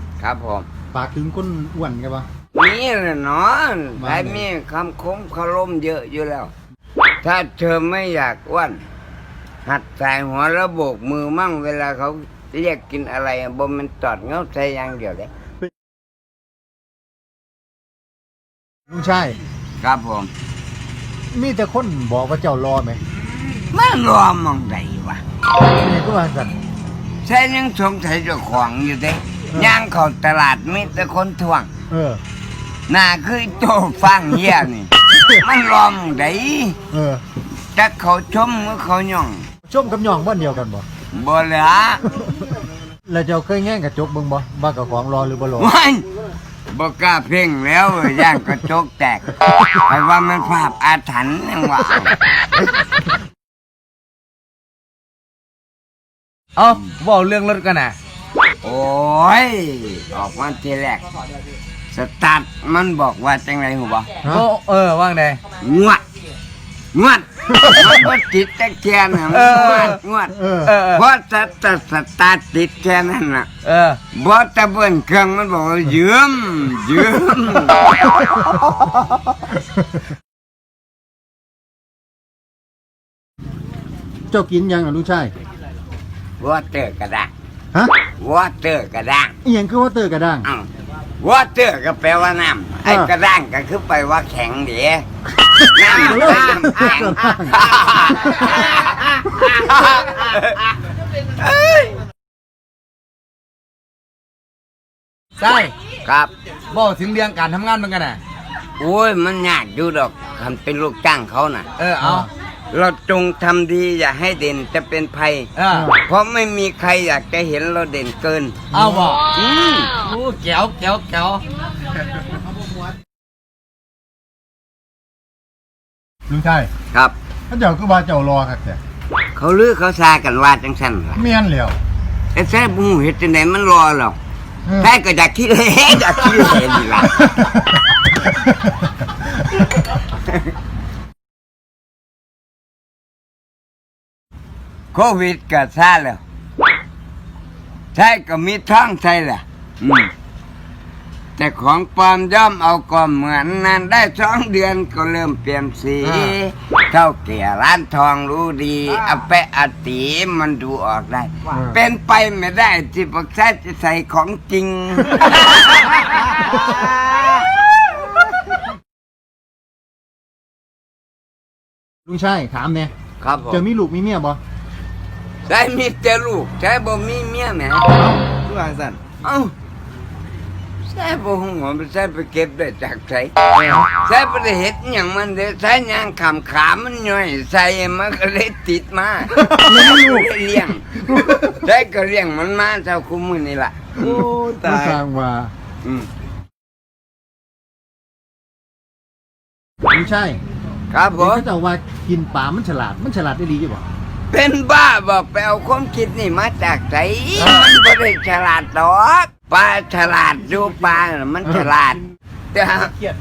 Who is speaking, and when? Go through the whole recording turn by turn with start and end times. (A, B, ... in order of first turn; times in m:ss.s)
0:00.2-0:00.7 A
0:00.9-0:02.2 B
0:02.5-0:06.5 A
0:04.0-0:04.4 B
0:07.2-0:08.8 A
0:09.6-0:15.3 A
0:18.9-0:19.4 B
0:19.8-0:20.3 A
0:21.3-0:23.0 B
0:23.7-0:25.2 A
0:25.6-0:26.6 B
0:27.2-0:31.7 A
0:31.9-0:32.2 B
0:32.9-0:36.8 A
0:36.9-0:37.2 B
0:37.7-0:39.5 A
0:39.7-0:40.8 B
0:41.1-0:42.2 A
0:43.0-0:45.7 B
0:45.6-0:46.0 A
0:46.7-0:52.1 A
0:56.6-0:58.0 C
0:58.6-1:01.0 A
1:01.9-1:04.1 A
1:04.2-1:05.4 C
1:05.6-1:06.0 A
1:06.9-1:13.5 A
1:09.3-1:10.0 C
1:10.3-1:10.7 B
1:10.6-1:11.0 C
1:13.6-1:14.0 C
1:14.1-1:18.2 A
1:24.3-1:25.3 B
1:26.4-1:27.3 A
1:28.0-1:29.3 A
1:29.4-1:30.5 B
1:30.4-1:30.7 A
1:31.2-1:35.0 A
1:35.5-1:37.6 B
1:35.7-1:40.7 A
1:38.3-1:38.6 B
1:41.4-1:42.0 A
1:45.4-1:45.7 C
1:46.0-1:46.3 A
1:46.7-1:48.2 C
1:48.8-1:51.7 A
1:51.8-1:52.3 C
1:52.0-1:52.3 B
1:52.7-1:58.6 A
1:55.6-1:55.9 C
1:55.7-1:56.0 B
1:58.7-1:59.2 B
1:58.7-1:59.3 C
1:59.3-2:00.0 A
2:00.0-2:01.4 C
2:06.3-2:06.7 B
2:07.5-2:08.8 B
2:09.3-2:11.3 A
2:11.2-2:11.8 B
2:12.3-2:14.2 A
2:14.8-2:17.5 A
2:24.9-2:26.2 A
2:27.9-2:30.1 A
2:31.4-2:47.4 A
2:52.1-2:52.9 B
2:53.2-2:53.6 A
2:53.5-2:54.4 B
2:55.4-2:57.9 A
2:57.9-2:58.2 B
2:58.4-2:59.0 C
2:59.2-2:59.5 A
3:00.9-3:13.9 A
3:09.4-3:10.2 B
3:14.0-3:15.0 C
3:14.6-3:15.5 B
3:15.8-3:16.1 A
3:19.9-3:20.4 B
3:20.9-3:21.4 A
3:21.1-3:23.8 B
3:24.3-3:32.0 A
3:32.5-3:32.9 A